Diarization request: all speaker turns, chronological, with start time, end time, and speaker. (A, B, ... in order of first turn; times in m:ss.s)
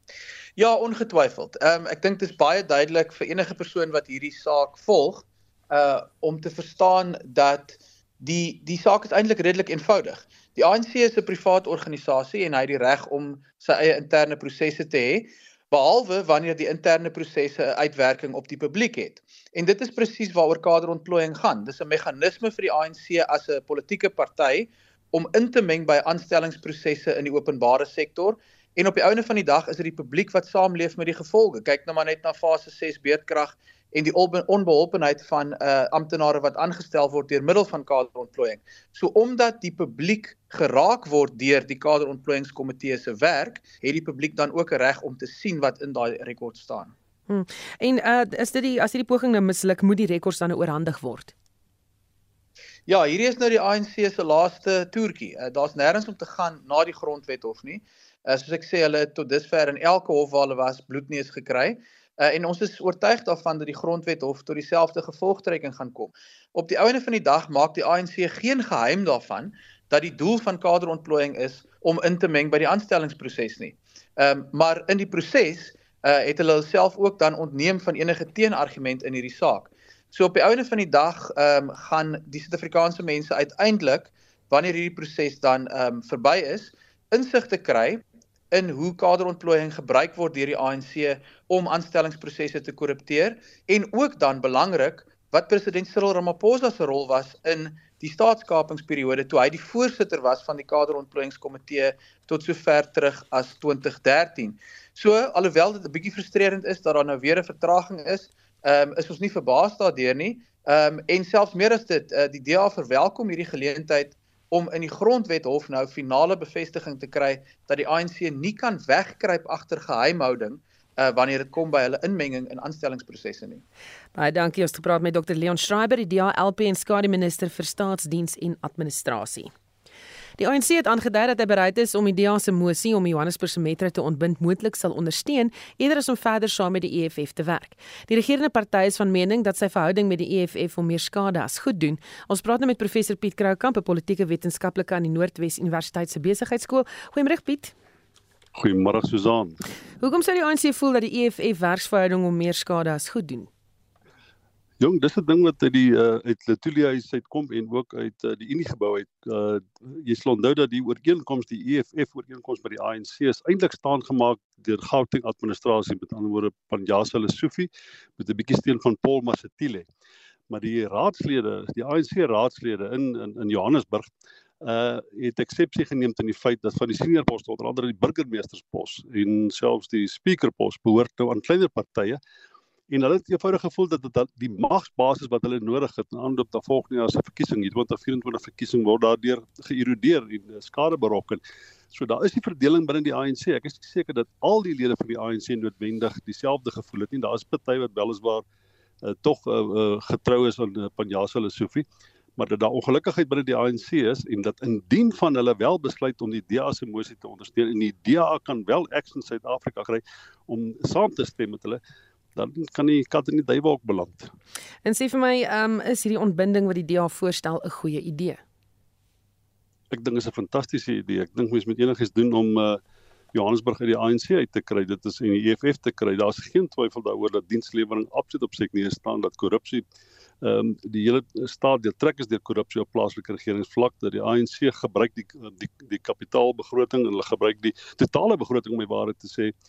0:00.6-0:46.9 A
0:47.3-0:51.3 B
0:52.9-2:03.6 A
2:04.2-2:09.5 B
2:10.4-2:27.8 B
2:28.6-2:29.6 C
2:30.0-2:33.5 B
2:34.8-2:49.8 C
2:50.5-2:54.1 C
2:54.6-3:02.2 C
3:02.9-3:11.4 C
3:11.9-3:18.4 C
3:19.0-3:21.8 C
3:22.4-3:31.8 C
3:32.4-3:34.3 C
3:34.8-3:38.4 B
3:39.9-3:42.8 C
3:43.3-3:49.8 C
3:50.4-3:59.5 C